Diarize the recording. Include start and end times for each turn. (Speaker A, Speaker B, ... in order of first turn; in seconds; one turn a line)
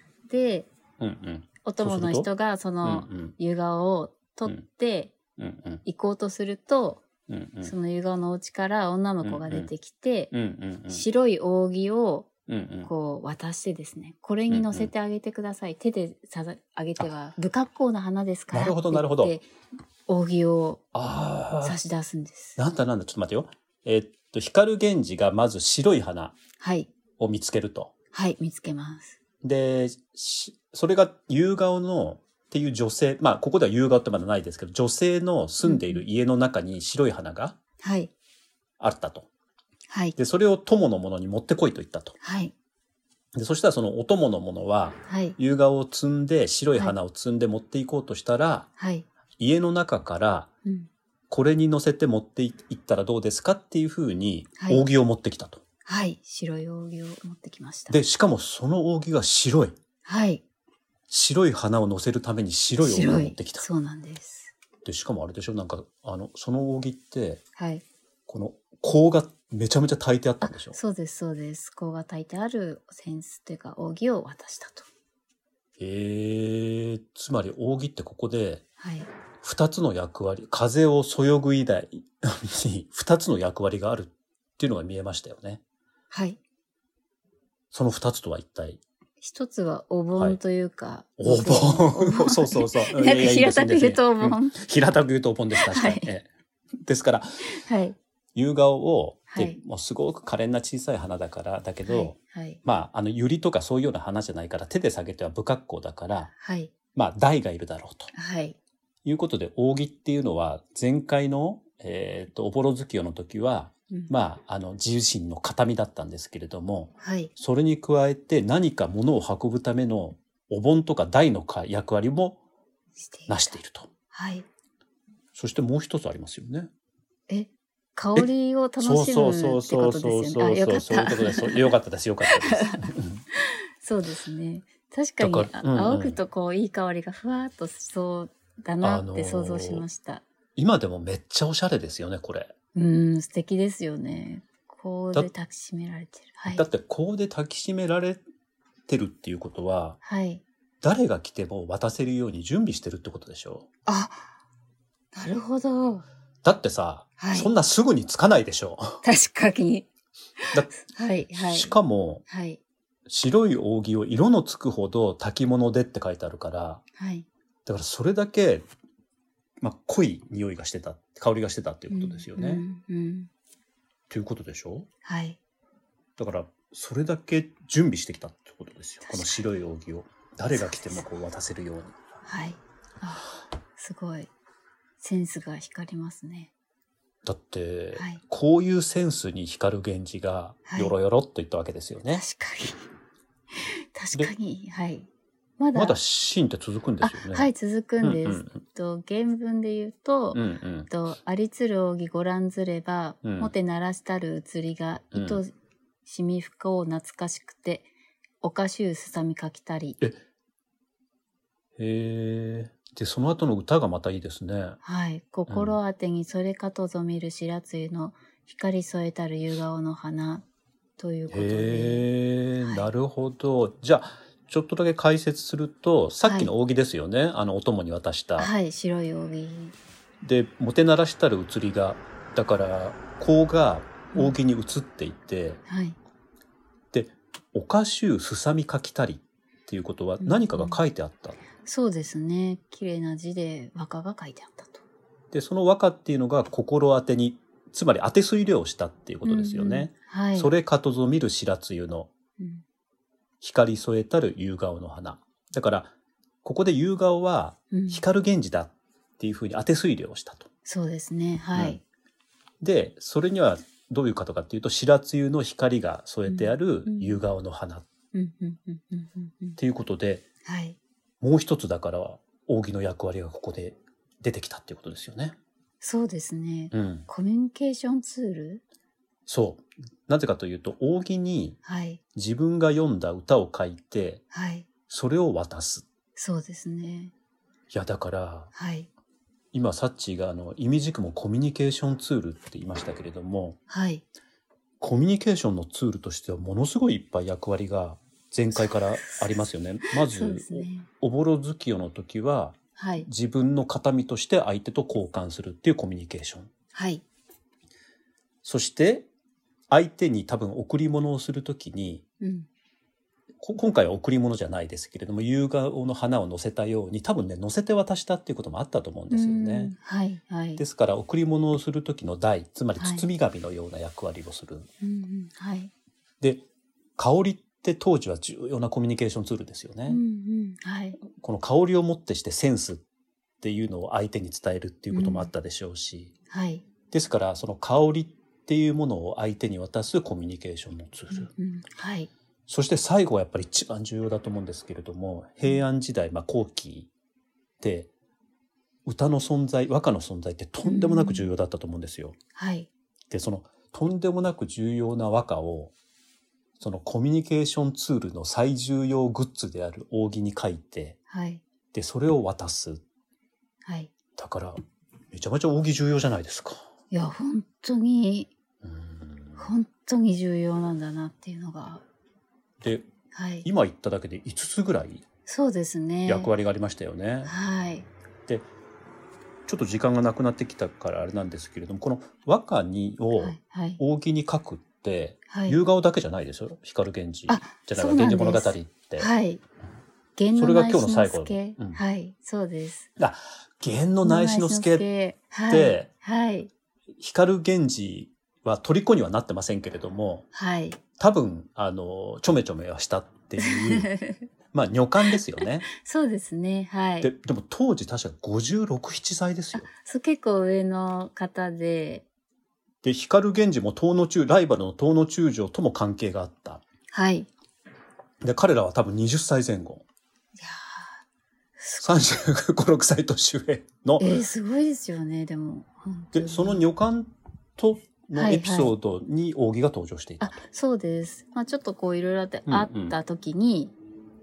Speaker A: 0.3-0.7
Speaker B: 1.0-2.3
Speaker A: 1.6-5.1
Speaker B: 2.8-3.3
Speaker B: 5.4-5.8
Speaker A: 5.8-7.0
Speaker B: 7.3-7.7
Speaker A: 7.6-10.3
Speaker B: 9.2-9.7
Speaker B: 10.3-11.1
Speaker A: 10.9-12.3
Speaker B: 12.5-12.9
Speaker A: 12.8-19.5
Speaker B: 14.5-14.9
Speaker B: 18.5-19.3
Speaker A: 20.1-20.8
Speaker B: 20.9-21.8
Speaker A: 21.6-22.6
Speaker B: 22.6-26.4
Speaker A: 26.6-26.9
Speaker B: 27.2-27.9
Speaker A: 28.1-29.2
Speaker B: 29.4-37.6
Speaker A: 35.6-36.0
Speaker A: 37.8-38.1
Speaker B: 38.8-39.3
Speaker A: 39.9-40.1
Speaker B: 40.1-42.1
Speaker A: 42.2-42.5
Speaker B: 43.3-48.7
Speaker A: 45.1-45.4
Speaker A: 48.8-49.0
Speaker B: 49.4-50.5
Speaker B: 51.3-55.6
Speaker A: 54.6-54.8
Speaker A: 55.9-57.9
Speaker B: 57.9-59.7
Speaker A: 60.0-60.4
Speaker B: 61.1-63.6
Speaker A: 62.8-64.5
Speaker B: 64.8-67.4
Speaker A: 67.6-67.8
Speaker B: 68.3-70.8
Speaker A: 70.4-74.9
Speaker B: 75.8-78.6
Speaker A: 78.8-79.1
Speaker B: 79.4-85.6
Speaker A: 86.1-86.4
Speaker B: 87.7-88.8
Speaker A: 89.2-94.5
Speaker B: 91.2-96.3
Speaker A: 95.5-96.1
Speaker B: 96.8-97.5
Speaker A: 97.4-98.0
Speaker B: 98.3-106.3
Speaker A: 99.3-99.6
Speaker A: 101.8-102.6
Speaker A: 106.3-106.7
Speaker B: 106.9-108.1
Speaker A: 108.1-108.5
Speaker B: 109.0-122.4
Speaker A: 117.0-117.3
Speaker A: 123.0-123.6
Speaker B: 123.3-123.9
Speaker A: 124.1-124.5
Speaker B: 125.3-126.7
Speaker A: 127.3-140.2
Speaker B: 128.8-133.2
Speaker B: 135.2-136.2
Speaker B: 138.8-139.8
Speaker B: 140.6-142.5
Speaker A: 142.7-146.6
Speaker B: 146.5-148.2
Speaker B: 148.9-150.0
Speaker A: 150.0-150.4
Speaker B: 150.8-153.7
Speaker A: 153.8-154.3
Speaker A: 155.1-156.0
Speaker B: 156.4-159.0
Speaker A: 157.2-157.5
Speaker A: 159.0-159.9
Speaker A: 160.4-161.7
Speaker B: 161.3-162.2
Speaker A: 162.3-162.6
Speaker B: 163.1-166.8
Speaker A: 167.0-167.2
Speaker B: 167.7-168.7
Speaker B: 169.6-172.6
Speaker A: 171.9-173.3
Speaker B: 174.1-174.9
Speaker A: 175.0-175.4
Speaker B: 176.2-181.9
Speaker A: 179.0-179.4
Speaker A: 180.5-181.0
Speaker A: 182.2-184.3
Speaker A: 185.0-186.5
Speaker B: 187.2-192.2
Speaker A: 187.9-188.2
Speaker A: 190.7-190.9
Speaker A: 192.1-192.8
Speaker A: 193.6-195.1
Speaker A: 195.6-196.0
Speaker B: 195.7-197.5
Speaker A: 197.0-205.5
Speaker B: 198.0-198.6
Speaker B: 200.3-200.9
Speaker B: 203.2-203.5
Speaker B: 205.1-205.4
Speaker A: 206.1-207.9
Speaker A: 208.4-210.0
Speaker B: 211.8-214.8
Speaker A: 214.8-220.4
Speaker B: 215.5-215.8
Speaker A: 221.0-222.1
Speaker B: 221.3-228.5
Speaker A: 222.6-222.9
Speaker A: 226.2-226.5
Speaker A: 228.4-229.8
Speaker B: 230.2-235.6
Speaker A: 235.7-236.0
Speaker B: 236.9-241.4
Speaker A: 240.2-240.8
Speaker A: 241.6-244.8
Speaker B: 245.3-252.1
Speaker A: 249.2-250.5
Speaker B: 253.4-255.9
Speaker B: 256.4-260.5
Speaker A: 257.7-258.0
Speaker A: 260.6-261.8
Speaker B: 262.6-267.9
Speaker A: 266.2-267.2
Speaker A: 268.1-269.6
Speaker B: 269.6-270.2
Speaker A: 270.4-270.8
Speaker B: 271.2-275.4
Speaker A: 275.8-278.6
Speaker B: 276.7-277.1
Speaker B: 279.3-281.6
Speaker A: 281.6-282.0
Speaker B: 282.1-284.2
Speaker A: 284.3-284.7
Speaker B: 284.9-285.9
Speaker A: 286.1-287.1
Speaker B: 287.7-288.5
Speaker A: 288.5-288.9
Speaker B: 289.5-293.6
Speaker A: 293.7-294.0
Speaker B: 294.8-306.5
Speaker A: 298.6-300.9
Speaker A: 302.8-303.1
Speaker A: 306.7-307.0
Speaker B: 308.4-309.1
Speaker B: 309.7-312.0
Speaker A: 312.2-312.5
Speaker B: 313.4-319.7
Speaker A: 319.1-320.6
Speaker B: 320.6-324.7
Speaker A: 322.8-323.0
Speaker A: 324.8-325.7
Speaker B: 327.0-330.0
Speaker A: 329.9-331.0
Speaker B: 331.1-332.8
Speaker B: 333.4-336.1
Speaker A: 334.9-335.3
Speaker A: 336.3-336.6
Speaker B: 336.9-341.3
Speaker A: 341.1-342.1
Speaker B: 342.5-346.9
Speaker B: 347.6-347.9
Speaker B: 348.8-352.1
Speaker A: 350.6-351.3
Speaker A: 352.4-352.7
Speaker B: 353.1-355.7
Speaker B: 356.6-361.0
Speaker A: 361.1-361.4
Speaker B: 361.7-362.8
Speaker A: 363.6-363.9
Speaker B: 364.2-364.6
Speaker B: 365.1-366.6
Speaker A: 366.9-368.3
Speaker B: 368.6-369.5
Speaker A: 369.4-371.8
Speaker B: 372.6-372.9
Speaker A: 373.1-373.4
Speaker B: 373.4-375.0
Speaker A: 375.2-376.3
Speaker B: 376.1-377.3
Speaker A: 377.2-377.9
Speaker B: 379.4-389.1
Speaker A: 383.1-383.8
Speaker A: 385.3-385.6
Speaker A: 387.3-389.4
Speaker A: 390.2-392.9
Speaker B: 390.3-391.8
Speaker B: 393.0-394.9
Speaker A: 394.0-396.5
Speaker B: 395.5-395.9
Speaker B: 396.9-400.2
Speaker A: 400.3-400.8
Speaker B: 401.0-403.9
Speaker A: 403.4-404.2
Speaker B: 404.5-405.7
Speaker A: 405.0-407.1
Speaker B: 407.0-409.7
Speaker A: 409.5-412.1
Speaker B: 412.8-416.6
Speaker A: 416.9-417.3
Speaker B: 418.2-419.8
Speaker A: 420.4-420.9
Speaker A: 421.6-422.0
Speaker B: 421.8-424.2
Speaker A: 424.0-426.6
Speaker B: 426.1-430.4
Speaker A: 428.1-428.7
Speaker A: 430.2-433.7
Speaker B: 432.5-432.9